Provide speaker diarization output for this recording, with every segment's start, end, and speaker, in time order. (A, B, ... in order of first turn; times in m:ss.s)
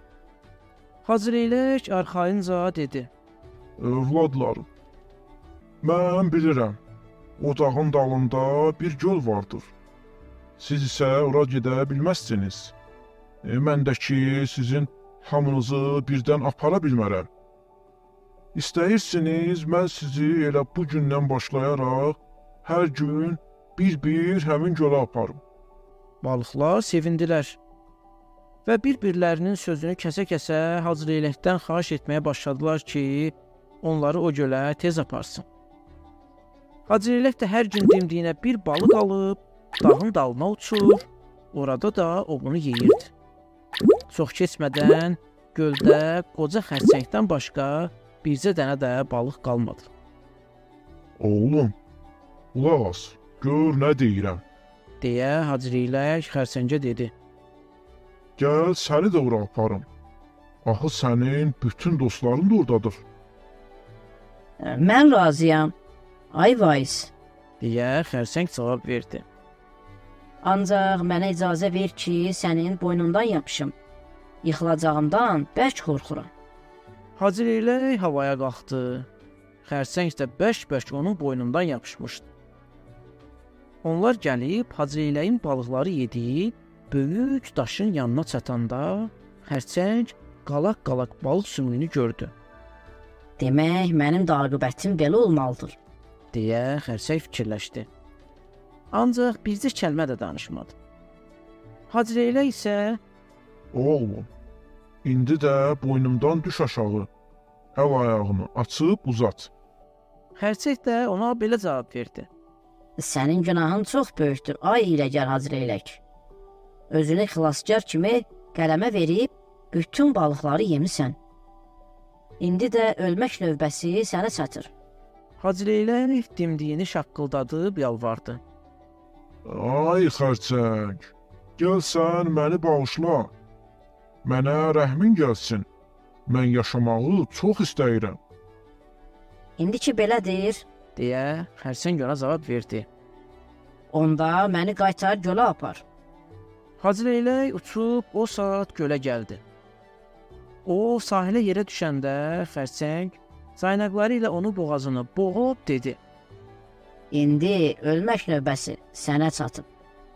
0:01.0-0:03.1 A
0:03.8-0:04.7 B
0:05.8-0:06.8 B
0:07.4-0:09.7 B
0:10.6-0:12.7 B
0:13.4-0:17.3 B
0:18.5-0:25.4 B
0:26.2-0:27.6 A
0:28.6-0:35.4 A
0:36.9-0:43.1 A
0:44.1-0:49.9 A
0:51.2-0:51.7 B
0:52.5-0:54.4 B
0:55.0-0:57.1 A
0:58.4-0:59.9 B
1:00.6-1:03.0 B
1:04.6-1:05.7 C
1:06.3-1:07.1 C
1:07.6-1:09.2 A
1:10.4-1:13.7 C
1:14.4-1:16.3 C
1:17.2-1:19.1 A
1:19.6-1:22.3 A
1:23.8-1:32.3 A
1:33.4-1:35.8 C
1:36.3-1:37.9 A
1:38.9-1:40.7 A
1:41.9-1:43.0 A
1:43.7-1:44.3 B
1:45.0-1:47.1 B
1:47.7-1:49.5 B
1:50.4-1:52.3 A
1:53.0-1:56.0 C
1:56.9-2:01.2 C
2:02.4-2:04.7 C
2:05.4-2:08.4 A
2:09.4-2:13.3 B
2:14.2-2:15.7 B
2:16.2-2:18.2 B
2:19.6-2:20.6 C
2:21.0-2:22.8 A
2:23.9-2:25.8 C
2:26.8-2:29.4 A
2:30.6-2:36.0 A
2:37.1-2:39.7 C